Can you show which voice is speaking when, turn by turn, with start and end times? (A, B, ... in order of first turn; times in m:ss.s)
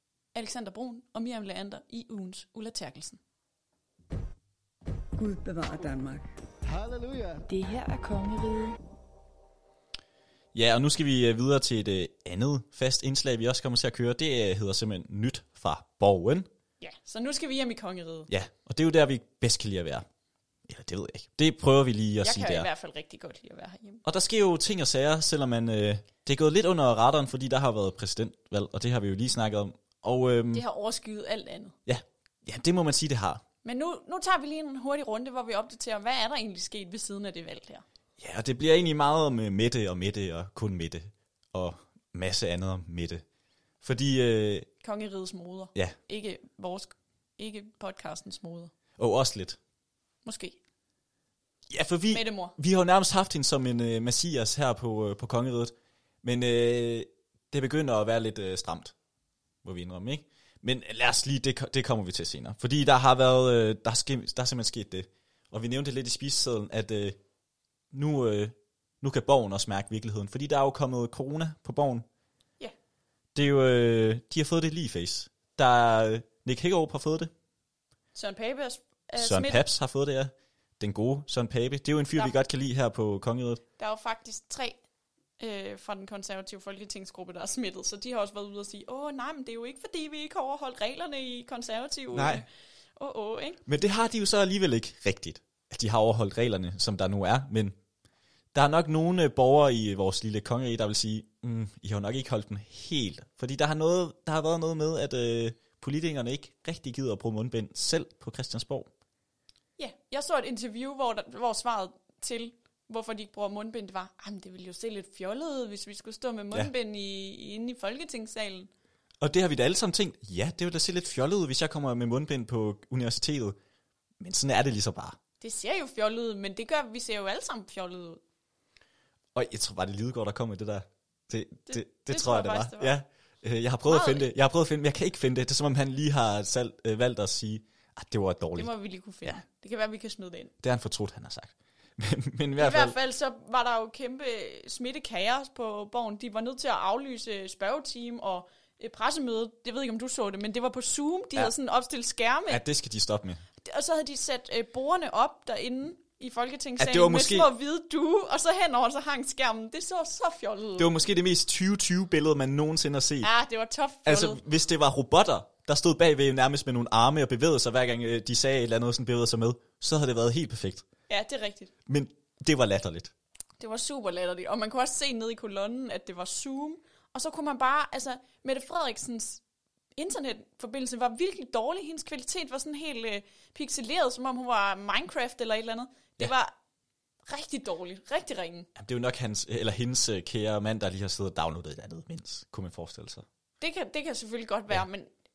0:00.3-0:03.2 A
0:05.2-0:08.8 B
0:10.5-0:16.5 C
0:16.8-0:18.3 A
0:18.3-0:20.0 C
0:20.7-0:22.7 C
0:22.2-0:24.0 A
0:24.0-0:30.6 C
0:30.5-0:31.8 A
0:31.8-0:33.4 C
0:33.6-0:37.8 A
0:38.2-0:43.2 C
0:43.8-0:44.7 C
0:44.8-0:48.7 A
0:49.0-0:49.6 C
0:50.2-0:50.6 A
0:51.7-0:58.9 C
0:52.1-0:52.6 A
0:59.6-1:07.2 C
1:07.9-1:12.0 C
1:13.3-1:17.3 C
1:18.1-1:19.6 A
1:19.2-1:23.6 C
1:23.8-1:24.8 A
1:25.4-1:32.4 A
1:32.1-1:32.4 C
1:33.0-1:33.6 A
1:33.6-1:37.7 C
1:38.5-1:48.9 C
1:49.8-1:58.7 A
1:59.2-2:03.6 C
2:04.2-2:05.2 C
2:05.4-2:08.2 A
2:09.3-2:18.7 C
2:11.7-2:13.0 A
2:13.9-2:14.3 A
2:18.6-2:20.5 A
2:20.6-2:23.0 C
2:22.6-2:32.6 A
2:32.5-2:33.4 C
2:33.6-2:40.9 A
2:36.8-2:37.5 C
2:40.8-2:43.3 C
2:43.2-2:44.4 A
2:44.0-2:50.8 C
2:51.1-2:51.7 A
2:51.9-2:53.1 C
2:53.6-2:59.4 A
3:00.0-3:06.5 A
3:07.3-3:08.7 A
3:08.8-3:13.2 C
3:13.6-3:15.1 A